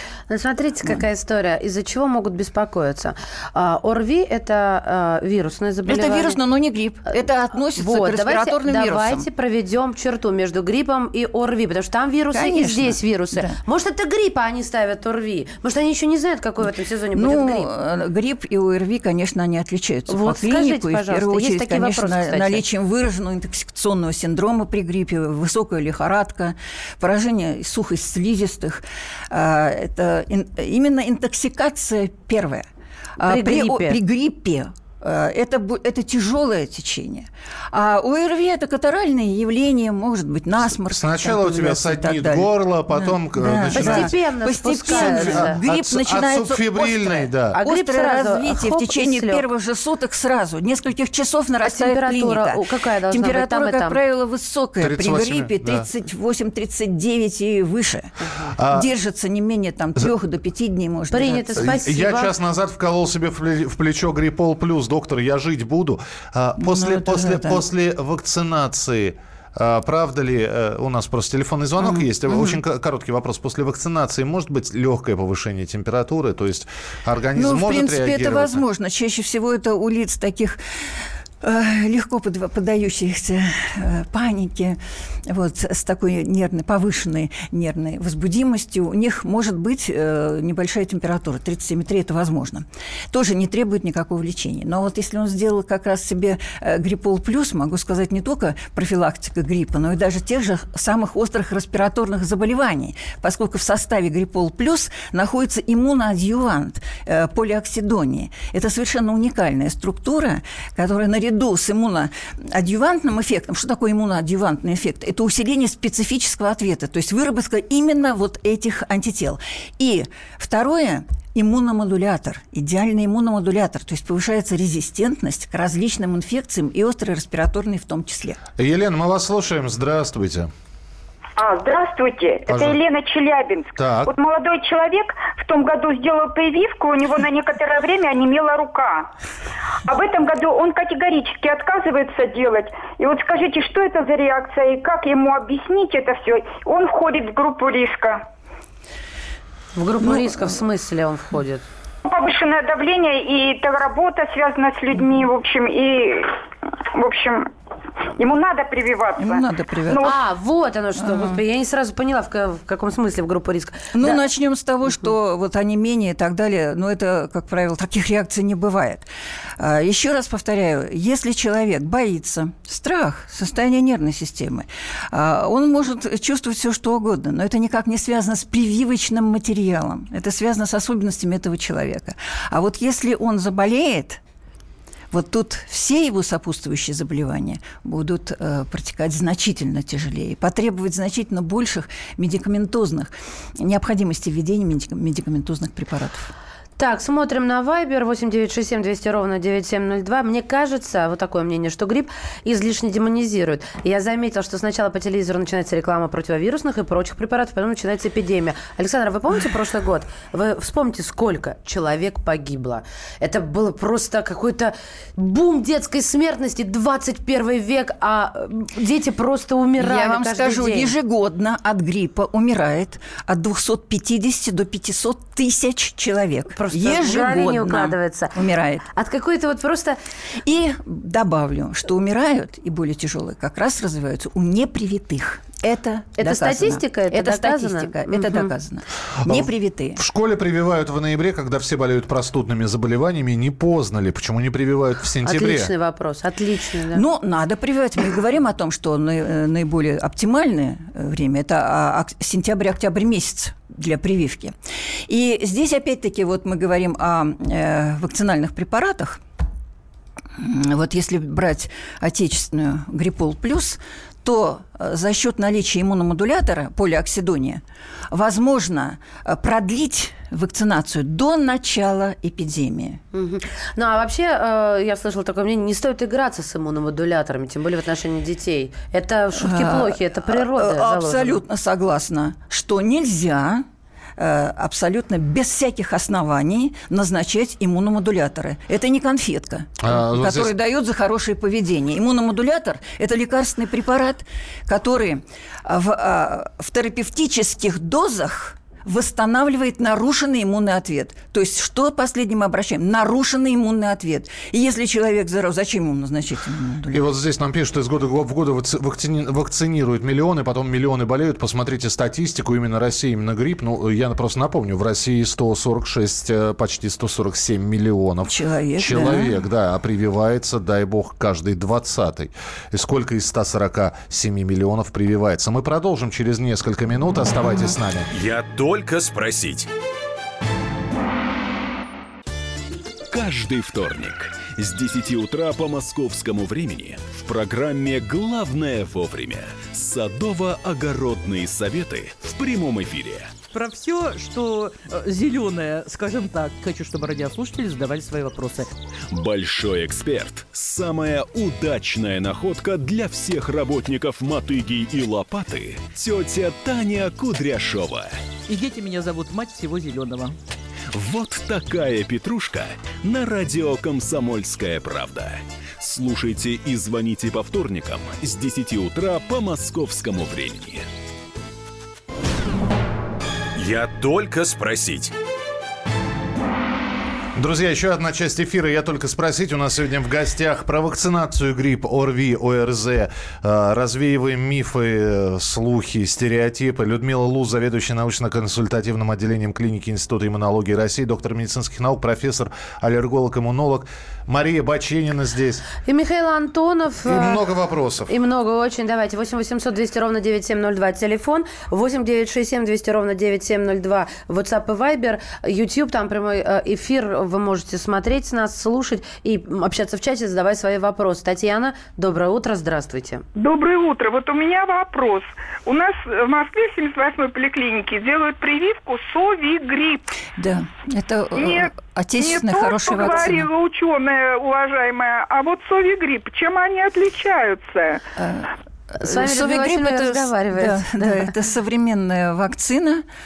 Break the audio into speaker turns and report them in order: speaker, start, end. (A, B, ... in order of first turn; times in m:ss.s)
0:00.3-0:06.4 A
0:05.9-0:09.3 B
0:07.7-0:17.7 A
0:12.3-0:13.6 B
0:17.2-0:32.7 B
0:20.1-0:22.6 A
0:33.2-1:01.8 B
0:33.2-0:34.0 A
0:40.7-0:44.2 C
0:43.7-0:45.6 A
0:44.9-0:47.6 C
0:47.5-0:49.4 A
0:51.6-0:54.0 A
0:54.8-0:55.9 C
0:58.2-0:58.5 A
0:58.6-0:58.9 C
1:01.1-1:02.3 A
1:01.6-1:18.6 C
1:06.6-1:07.6 B
1:11.8-1:12.6 B
1:17.4-2:08.4 B
2:08.6-2:10.5 C
2:11.4-2:19.1 D
2:12.5-2:12.8 C
2:13.8-2:14.1 C
2:19.9-2:28.2 D
2:29.8-2:31.6 A
2:32.0-2:37.5 D
2:38.2-2:40.1 D
2:39.2-2:40.0 B
2:40.0-2:44.2 A
2:41.0-2:41.4 B
2:43.9-2:49.1 B
2:49.6-3:04.2 B
3:05.1-3:16.3 B
3:16.8-3:40.9 A
3:39.8-3:48.8 B
3:46.6-3:48.3 A
3:48.9-3:50.0 A
3:50.4-4:00.0 B
3:56.2-3:58.5 A
3:59.2-4:05.7 C
4:05.2-4:07.0 A
4:06.9-4:19.2 B
4:20.4-4:33.0 B
4:33.1-4:41.4 A
4:39.4-4:43.7 B
4:44.2-5:07.0 B
4:49.8-4:50.5 C
5:06.9-5:28.1 C
5:18.3-5:19.4 B
5:27.5-5:27.7 B
5:28.1-5:29.7 E
5:33.1-5:43.3 F
5:43.5-5:48.7 G
5:49.1-5:58.1 F
5:58.5-6:00.4 G
6:00.9-6:10.9 F
6:13.6-6:15.1 E
6:17.4-6:35.7 C
6:35.8-6:37.4 A
6:37.1-6:38.1 C
6:38.1-6:53.2 A
6:53.3-7:00.0 H
7:00.4-7:03.5 B
7:01.4-7:08.0 H
7:08.2-7:13.0 B
7:09.0-7:11.3 A